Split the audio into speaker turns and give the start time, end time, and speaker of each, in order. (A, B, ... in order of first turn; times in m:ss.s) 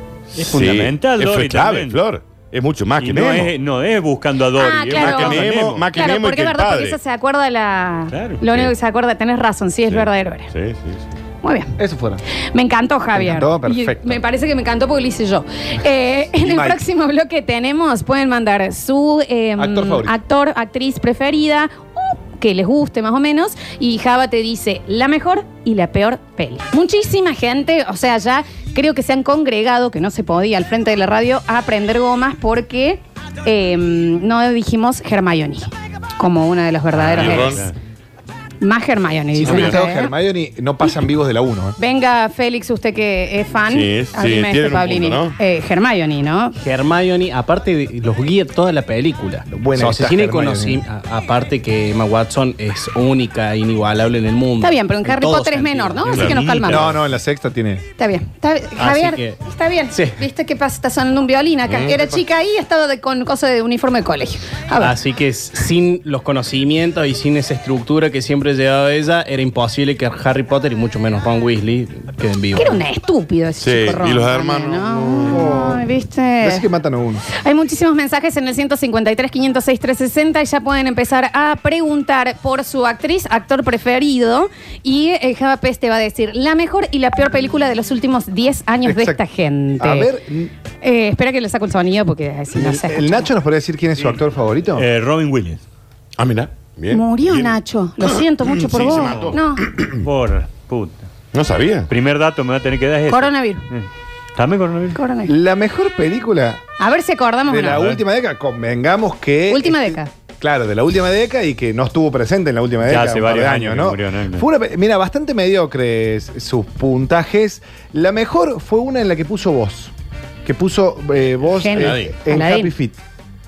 0:00.3-0:03.5 A
0:00.4-0:02.0 B
0:03.0-0:05.9 B
0:04.6-0:10.5 C
0:04.9-0:07.0 A
0:08.1-0:08.4 B
0:09.9-0:11.0 A
0:11.4-0:11.8 C
0:11.8-0:12.2 D
0:12.5-0:37.6 C
0:13.1-0:14.2 D
0:16.4-0:16.8 D
0:19.6-0:20.1 D
0:36.9-0:37.7 A
0:37.2-0:37.7 B
0:38.6-0:40.1 C
0:39.4-0:41.8 D
0:39.4-0:39.8 A
0:41.8-0:46.6 C
0:43.7-0:45.4 A
0:46.6-0:56.8 E
0:49.5-0:50.8 D
0:54.6-0:56.8 C
0:56.1-0:56.8 A
0:56.7-0:57.8 D
0:58.0-1:05.0 C
0:58.8-0:59.4 E
0:59.9-1:00.2 E
1:01.7-1:02.0 A
1:04.8-1:12.8 E
1:12.6-1:16.7 C
1:13.6-1:15.5 A
1:15.3-1:15.8 D
1:16.4-1:17.2 D
1:17.3-1:30.1 C
1:28.8-1:29.2 D
1:29.8-1:30.5 D
1:30.8-1:33.3 C
1:32.5-1:34.9 D
1:34.8-1:35.6 B
1:36.2-1:40.0 A
1:36.9-1:39.7 C
1:39.0-1:39.3 B
1:40.0-1:41.1 B
1:41.3-1:41.9 A
1:41.9-1:45.0 B
1:43.1-1:43.6 C
1:45.0-1:45.3 C
1:45.3-1:46.6 D
1:46.8-1:47.9 C
1:47.5-1:59.9 D
1:49.5-1:50.1 C
1:52.8-1:54.5 B
2:00.4-2:03.0 D
2:01.6-2:02.7 C
2:01.7-2:02.1 A